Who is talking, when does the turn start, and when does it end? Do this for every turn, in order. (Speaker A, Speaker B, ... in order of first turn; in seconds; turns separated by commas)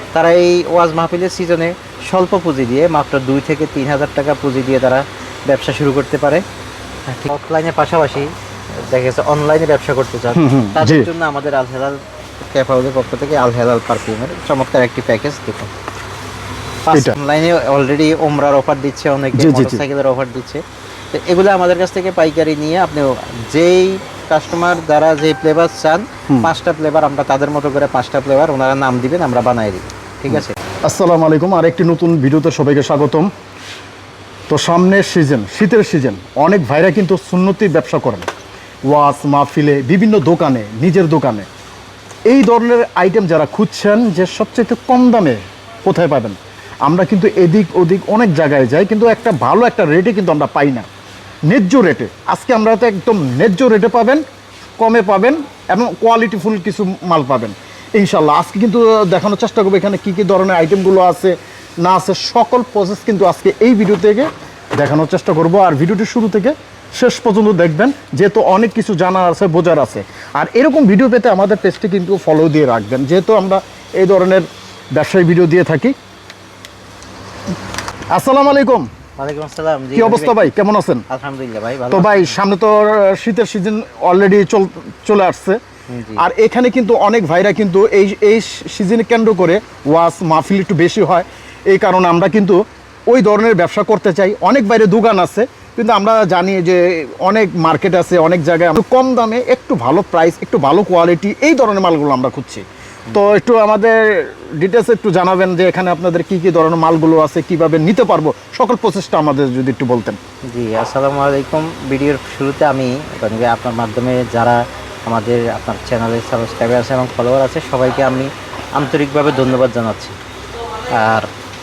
Speaker A: 0.1-6.4, Speaker A: 7.1-15.7, Speaker B: 10.3-11.1, Speaker A: 16.8-30.6, Speaker B: 16.9-17.2, Speaker B: 19.3-19.8, Speaker B: 30.3-33.3, Speaker B: 34.5-38.3, Speaker B: 38.9-41.5, Speaker B: 42.3-50.9, Speaker B: 51.5-54.2, Speaker B: 54.8-75.9, Speaker B: 78.1-78.9, Speaker A: 79.2-80.5, Speaker B: 79.9-81.0, Speaker A: 81.1-82.4, Speaker B: 81.9-85.6, Speaker A: 85.9-86.2, Speaker B: 86.2-110.2, Speaker A: 103.1-103.3, Speaker A: 110.5-120.2, Speaker A: 120.9-121.3